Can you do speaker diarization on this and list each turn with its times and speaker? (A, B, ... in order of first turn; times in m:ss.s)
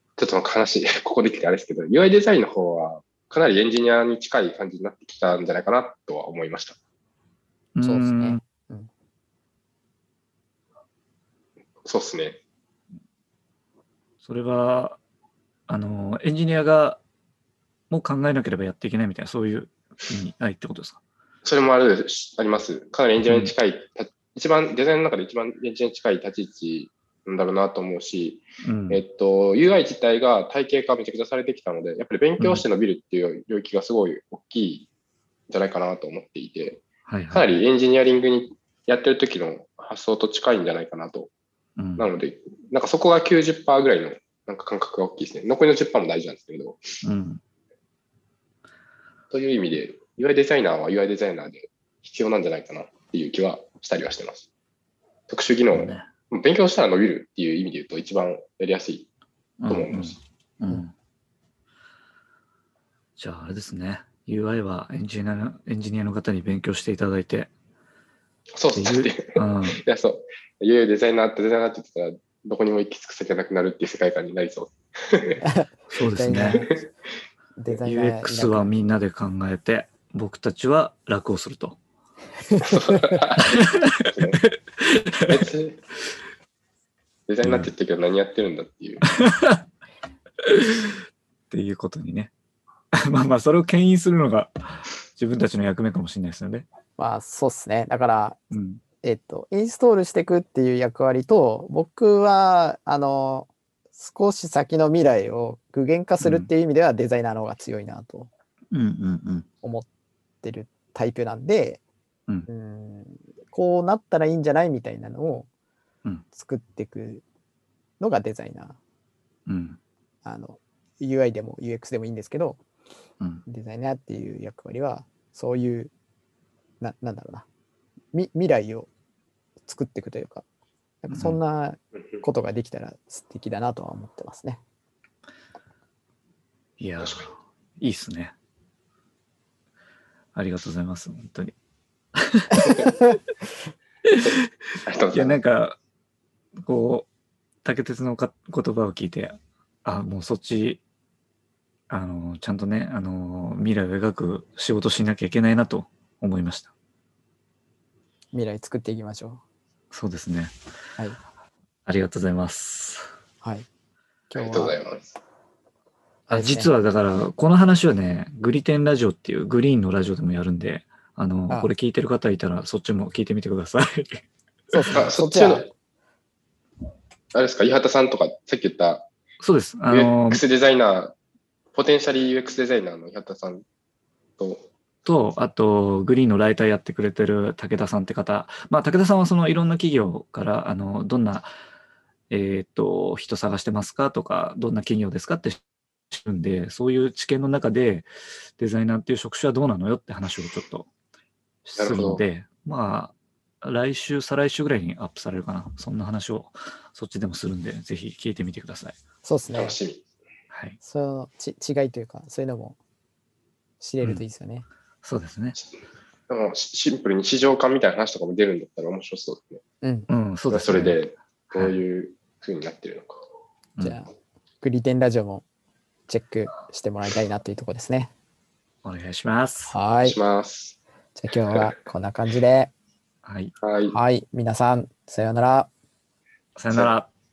0:00.2-0:06.8 A
0:07.7-0:08.4 B
0:07.8-0:08.9 C
0:11.8-0:12.4 A
0:14.2-0:15.0 B
0:15.7-0:17.0 B
0:17.9-0:21.0 B
0:21.4-0:34.9 A
0:23.2-0:23.5 B
0:28.6-0:29.0 B
0:32.4-0:32.6 B
0:35.5-0:41.3 A
0:37.0-0:37.6 B
0:41.8-0:42.1 B
0:42.0-0:46.8 A
0:47.0-0:47.4 B
0:49.3-0:54.5 A
0:55.3-0:59.1 A
0:55.7-0:56.1 B
0:59.6-1:00.9 B
0:59.7-1:00.2 A
1:03.2-1:07.5 B
1:08.6-1:15.4 A
1:08.7-1:09.8 B
1:15.4-1:16.8 C
1:15.9-1:16.6 B
1:16.4-1:16.7 A
1:17.6-1:18.7 C
1:17.8-1:21.8 B
1:22.5-1:23.2 C
1:22.6-1:24.4 A
1:23.4-1:25.4 B
1:25.3-1:25.8 A
1:27.3-1:29.1 A
1:27.4-1:27.7 B
1:29.1-1:29.6 B
1:30.4-1:32.3 B
1:32.9-1:36.6 B
1:37.0-1:38.4 C
1:38.5-1:38.8 B
1:39.0-1:48.3 C
1:46.2-1:46.5 B
1:48.7-1:49.5 B
1:49.6-1:49.9 C
1:50.4-1:51.8 C
1:52.5-1:55.5 C
1:56.3-1:57.2 C
1:58.0-1:58.8 C
1:59.5-1:59.8 B
2:00.2-2:02.6 C
2:03.4-2:05.9 C
2:06.8-2:07.4 C
2:08.1-2:08.9 C
2:09.7-2:10.4 C
2:11.0-2:14.6 C
2:11.1-2:11.4 B
2:16.8-2:18.3 B
2:17.0-2:17.3 A
2:20.3-2:21.5 B
2:22.1-2:22.8 B
2:24.0-2:24.4 B
2:24.2-2:25.4 A
2:25.1-2:25.8 B
2:26.6-2:27.1 B
2:27.6-2:30.8 B
2:31.9-2:36.7 B
2:38.3-2:39.4 C
2:39.9-2:40.5 B
2:41.8-2:43.1 B
2:44.3-2:44.8 C
2:44.4-2:45.2 A
2:46.3-2:46.7 C
2:46.3-2:54.2 B
2:54.7-2:55.7 C
2:54.9-2:55.7 A
2:57.3-2:59.1 A
2:59.4-3:00.4 B
2:59.9-3:01.2 A
3:01.7-3:03.6 A
3:04.4-3:04.7 A
3:05.0-3:11.5 B
3:12.3-3:20.9 B
3:21.6-3:29.0 B
3:21.8-3:22.2 A
3:29.2-3:29.7 C
3:29.5-3:30.0 A
3:30.5-3:30.8 B
3:30.8-3:32.8 C
3:33.8-3:34.7 C
3:35.0-3:35.6 B
3:36.3-3:39.6 A
3:39.8-3:40.1 C
3:40.1-3:41.0 B
3:40.5-3:43.2 A
3:43.8-3:44.1 C
3:44.6-3:45.4 C
3:46.1-3:48.1 C
3:48.8-3:49.7 B
3:49.7-3:50.2 C
3:50.0-3:50.8 A
3:51.2-3:52.7 C
3:53.2-3:53.5 B
3:53.6-3:54.0 A
3:53.9-3:55.7 C
3:56.6-3:57.1 B